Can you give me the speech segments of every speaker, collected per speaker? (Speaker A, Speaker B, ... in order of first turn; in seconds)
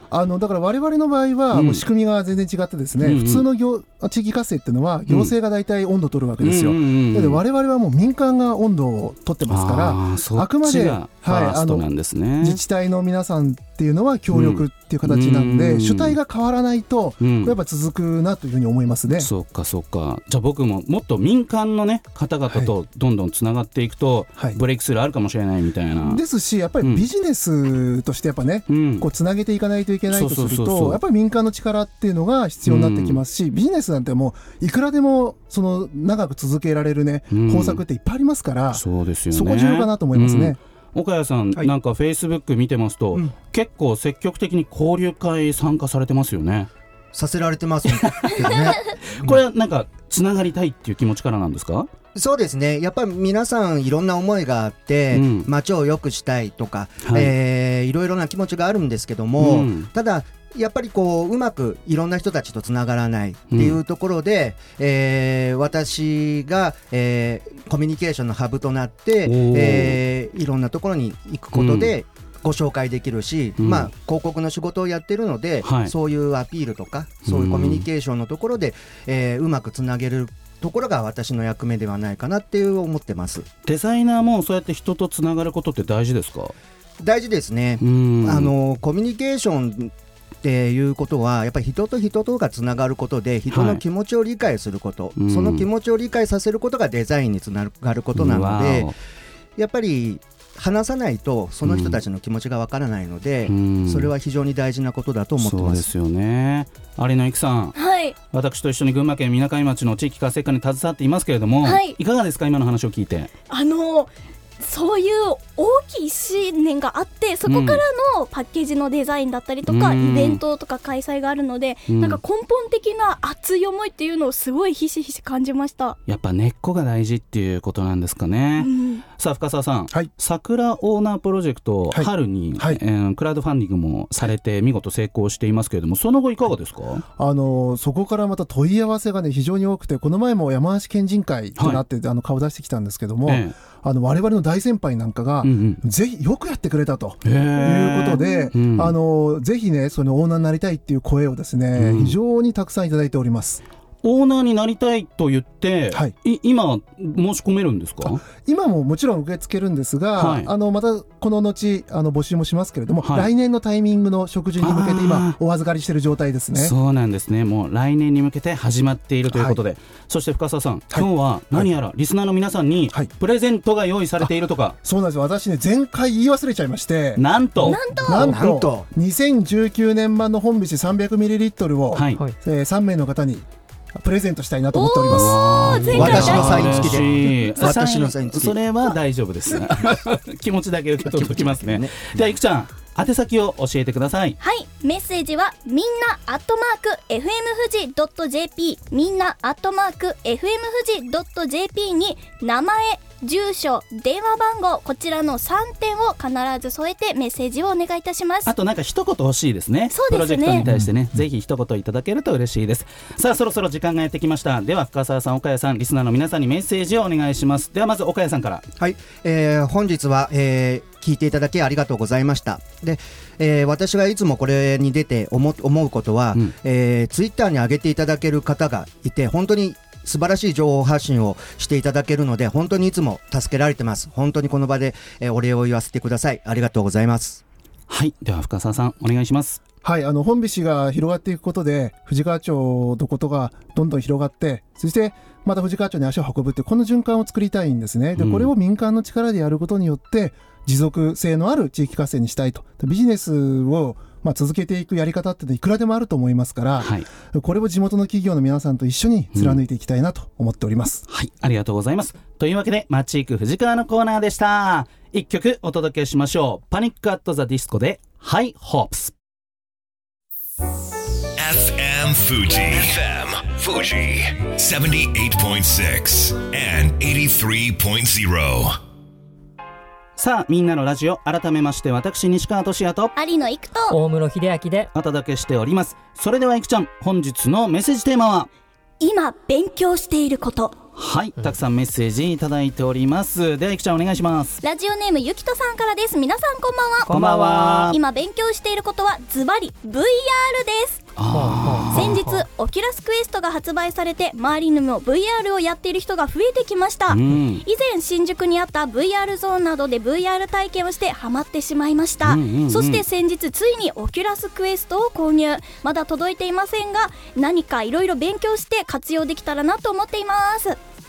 Speaker A: 0.1-11.9, 12.4-19.3, 26.0-40.6, 131.9-132.8, 137.2-153.6, 158.3-166.7, 169.3-169.6, 170.9-171.7, 174.8-185.5, 186.1-186.8, 210.6-210.9, 239.8-261.1
Speaker B: 1.5-1.8, 3.0-3.4, 5.1-5.3, 6.4-7.4, 9.5-12.6, 14.3-16.2, 17.2-17.6, 19.2-26.2, 28.7-29.1, 30.1-31.0, 32.6-33.2, 37.3-37.8, 38.7-46.7, 47.9-51.9, 55.1-55.5, 57.0-57.3, 59.4-59.9, 63.5-63.8, 69.2-70.0, 71.5-71.9, 73.6-73.9, 75.6-75.9, 77.2-77.9, 83.7-86.5, 87.8-88.5, 93.5-93.8, 95.2-95.7, 98.1-98.9, 101.6-102.0, 103.5-104.1, 105.4-107.8, 108.3-113.3, 117.5-117.8, 119.7-120.4, 121.9-122.2, 126.1-137.0, 141.6-141.8, 143.3-143.6, 145.4-145.8, 147.2-148.9, 151.8-152.2, 154.0-158.2, 160.2-160.5, 163.0-163.3, 164.6-165.4, 166.6-174.8, 177.2-177.8, 181.9-182.2, 185.1-194.4, 208.5-218.7, 237.9-239.6, 248.2-248.5, 256.8-257.1, 259.3-259.6, 261.1-269.1, 280.2-283.1, 284.9-288.5, 290.9-294.6, 297.1-298.0, 301.2-302.2, 307.1-307.6, 312.2-313.0
Speaker C: 47.1-49.4, 52.1-83.5, 87.0-89.9, 90.4-98.9, 99.6-105.9, 178.1-178.8, 186.0-188.6, 191.0-192.2, 218.8-237.4
Speaker D: 107.8-108.2, 111.6-112.0, 113.5-126.0, 128.6-129.0, 177.7-178.3, 184.7-186.9, 194.4-208.5, 209.9-210.6, 283.2-284.0, 289.0-290.8, 294.6-301.1, 301.9-320.8
Speaker E: 271.4-278.8
Speaker F: 283.9-284.9, 297.2-297.7, 301.3-302.4